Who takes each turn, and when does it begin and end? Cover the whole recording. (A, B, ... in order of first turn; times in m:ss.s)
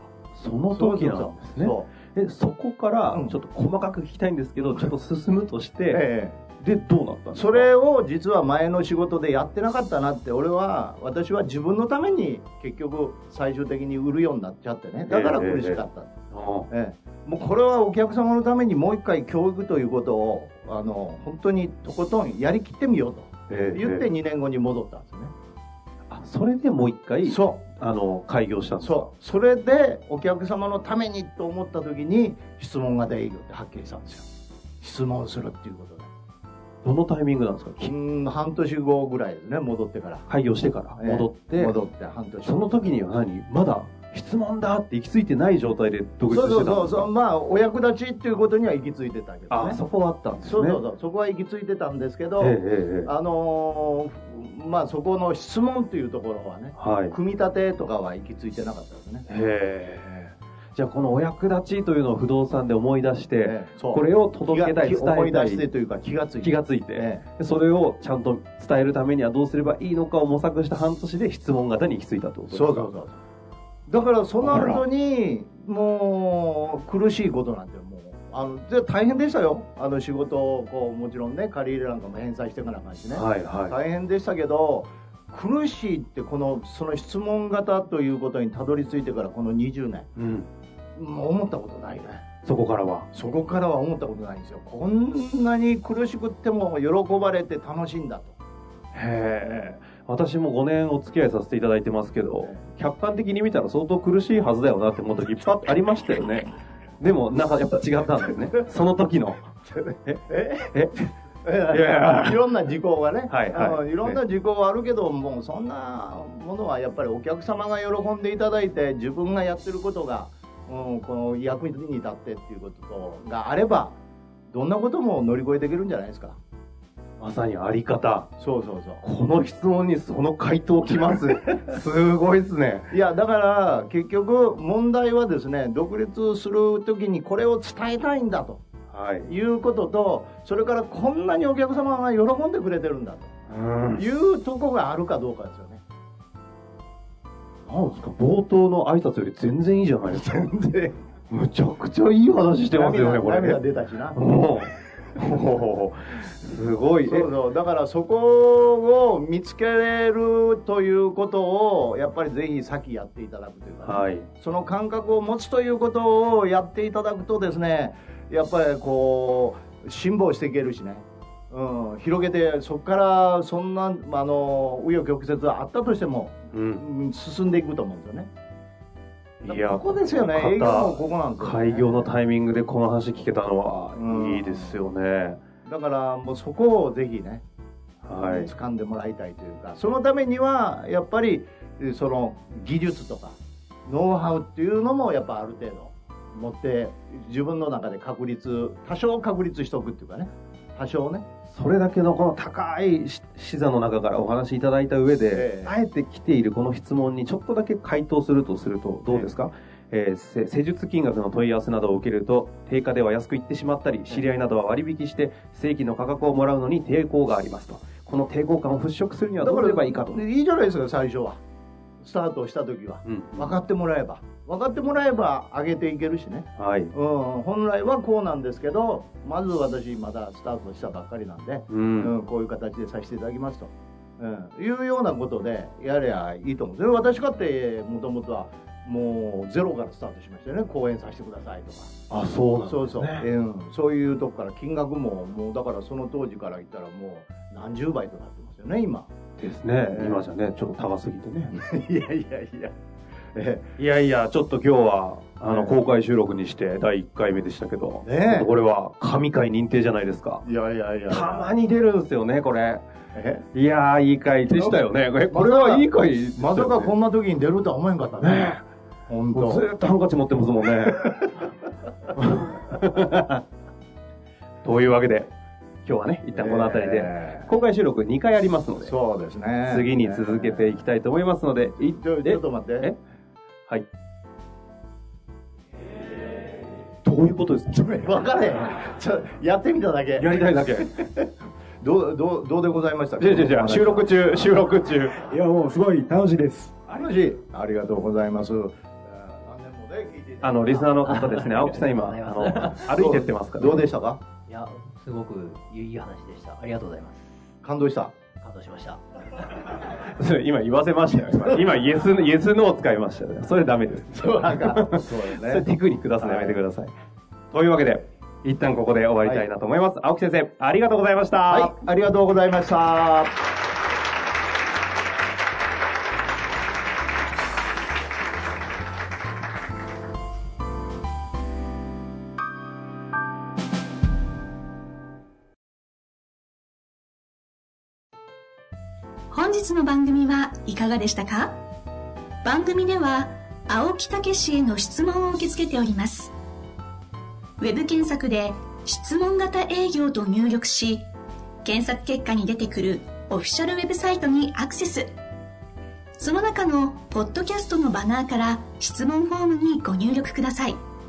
0:00.3-0:06.0 A
0:00.7-0:01.9 B
0:04.6-0:04.9 B
0:05.9-0:06.4 B
0:06.6-0:07.7 A
0:07.3-0:16.1 B
0:15.1-0:16.7 A
0:16.7-0:25.3 B
0:23.5-0:24.0 A
0:26.1-0:29.1 A
0:27.2-0:27.6 B
0:28.8-0:34.2 B
0:34.8-0:36.1 B
0:36.8-0:37.9 A
0:37.8-0:40.3 B
0:40.3-0:41.8 A
0:41.0-0:43.0 B
0:42.4-0:47.1 A
0:46.3-0:49.8 B
0:49.5-0:50.8 A
0:50.4-0:59.2 B
0:52.4-0:53.1 A
0:56.8-0:57.2 A
0:59.3-1:05.6 A
1:03.4-1:07.2 B
1:06.4-1:12.9 A
1:12.5-1:13.2 B
1:13.9-1:30.1 B
1:14.4-1:14.8 A
1:23.1-1:23.8 A
1:30.2-1:30.5 A
1:31.0-1:32.2 B
1:32.4-1:33.1 A
1:33.1-1:38.3 B
1:38.9-1:49.5 A
1:39.4-1:39.7 B
1:49.6-2:04.0 B
1:50.0-1:50.9 A
1:51.7-1:52.4 A
1:53.3-1:54.2 A
2:04.5-2:06.4 B
2:07.2-2:08.3 A
2:08.4-2:09.0 B
2:09.0-2:12.9 A
2:11.5-2:11.7 B
2:12.9-2:18.6 B
2:18.9-2:19.3 A
2:19.2-2:23.3 B
2:23.5-2:24.0 A
2:23.9-2:25.8 B
2:27.6-2:30.2 A
2:30.1-2:30.9 B
2:31.3-2:33.6 A
2:32.7-2:34.2 B
2:34.1-2:37.3 A
2:37.0-2:58.3 B
2:43.8-2:44.3 A
2:56.5-2:56.8 A
2:59.4-3:05.4 A
2:59.4-3:02.1 B
3:03.9-3:04.8 B
3:05.6-3:07.4 B
3:08.0-3:08.5 A
3:08.1-3:21.2 B
3:21.5-3:40.2 A
3:25.3-3:25.7 B
3:39.4-3:41.4 B
3:42.0-4:01.9 B
3:43.0-3:43.6 A
3:46.6-3:46.9 A
3:51.7-3:52.1 A
4:02.1-4:03.3 A
4:02.7-4:09.1 B
4:09.4-4:11.6 A
4:09.8-4:10.3 B
4:11.5-4:12.7 B
4:13.3-4:13.7 B
4:13.8-4:20.4 A
4:15.5-4:15.8 B
4:18.0-4:18.5 B
4:20.4-4:21.5 B
4:21.1-4:22.8 A
4:23.1-4:23.5 B
4:23.5-4:26.9 A
4:24.5-4:29.6 B
4:28.2-4:28.6 A
4:29.3-4:31.4 A
4:32.1-4:33.4 A
4:34.6-4:35.3 A
4:35.8-4:38.9 A
4:36.3-4:37.5 B
4:38.8-4:40.8 B
4:39.6-4:43.0 A
4:41.7-4:42.9 B
4:47.0-4:47.9 A
4:47.7-4:51.3 B
4:50.2-4:50.9 A
4:51.8-4:54.5 B
4:53.2-4:55.3 A
4:55.3-4:56.7 C
4:56.9-5:01.0 B
5:00.4-5:03.9 A
5:01.2-5:02.9 C
5:02.9-5:04.2 B
5:04.5-5:07.1 D
5:05.0-5:05.9 C
5:07.6-5:08.1 B
5:08.4-5:08.9 D
5:09.9-5:16.9 A
5:14.1-5:15.7 B
5:16.2-5:16.6 B
5:17.5-5:21.7 A
5:21.5-5:23.4 B
5:39.3-5:41.6 E
5:42.4-5:46.3 E
5:47.6-5:51.1 E
5:51.6-5:55.1 E
5:56.2-6:00.8 E